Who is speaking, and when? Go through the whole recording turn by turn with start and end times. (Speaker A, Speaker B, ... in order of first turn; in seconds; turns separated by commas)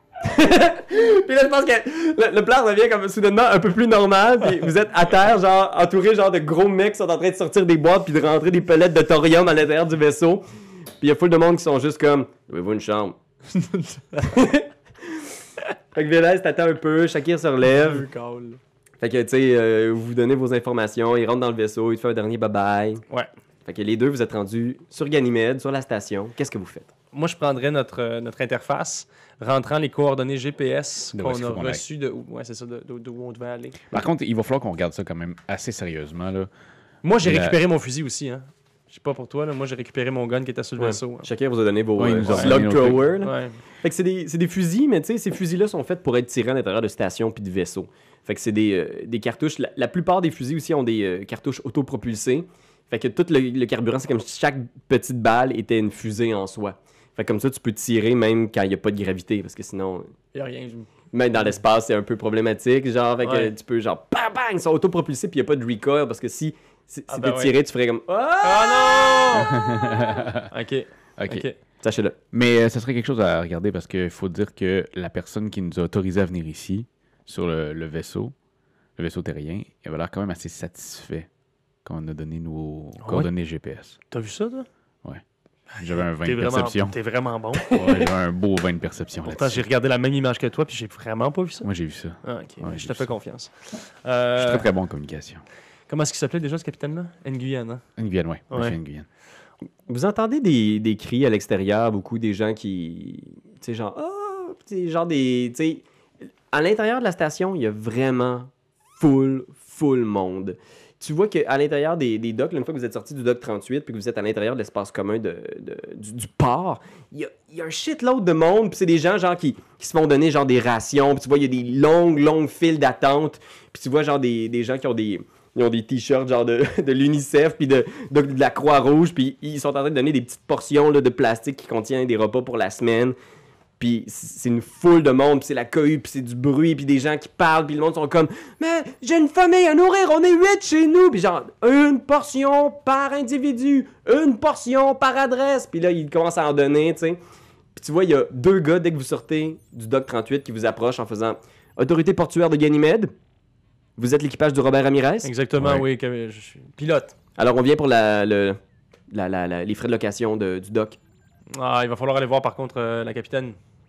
Speaker A: 0.2-10.4, Speaker A: 11.0-13.2, Speaker B: 13.5-14.5, Speaker A: 14.2-15.3, Speaker A: 15.9-18.1, Speaker B: 17.6-18.6, Speaker A: 19.0-23.0, Speaker A: 23.6-26.9, Speaker B: 27.1-33.9, Speaker C: 31.1-31.8, Speaker C: 33.9-36.5, Speaker B: 37.0-41.3, Speaker C: 37.2-37.6, Speaker A: 40.8-60.1, Speaker C: 42.0-43.1, Speaker B: 42.2-42.6, Speaker B: 43.2-43.6, Speaker B: 60.3-60.9, Speaker A: 61.1-69.4, Speaker B: 63.2-63.5, Speaker B: 67.1-67.5, Speaker B: 68.4-71.5, Speaker C: 69.4-70.5, Speaker C: 71.2-71.5, Speaker A: 71.8-72.2, Speaker C: 72.3-78.3, Speaker C: 79.0-81.3, Speaker C: 81.8-84.0, Speaker B: 83.0-83.3, Speaker B: 84.1-84.7, Speaker C: 85.8-86.9, Speaker B: 85.8-88.1, Speaker C: 87.6-89.7, Speaker B: 89.2-91.7, Speaker C: 91.6-93.1, Speaker B: 92.2-94.7, Speaker C: 94.3-95.4, Speaker B: 95.9-97.8, Speaker C: 98.0-99.1, Speaker B: 98.5-98.8, Speaker A: 99.9-105.8, Speaker A: 106.5-133.2, Speaker A: 133.8-147.2, Speaker A: 147.7-153.1, Speaker A: 154.0-155.3, Speaker B: 155.2-157.2, Speaker C: 155.6-155.8, Speaker A: 157.4-158.6, Speaker A: 159.1-161.0, Speaker B: 161.5-163.6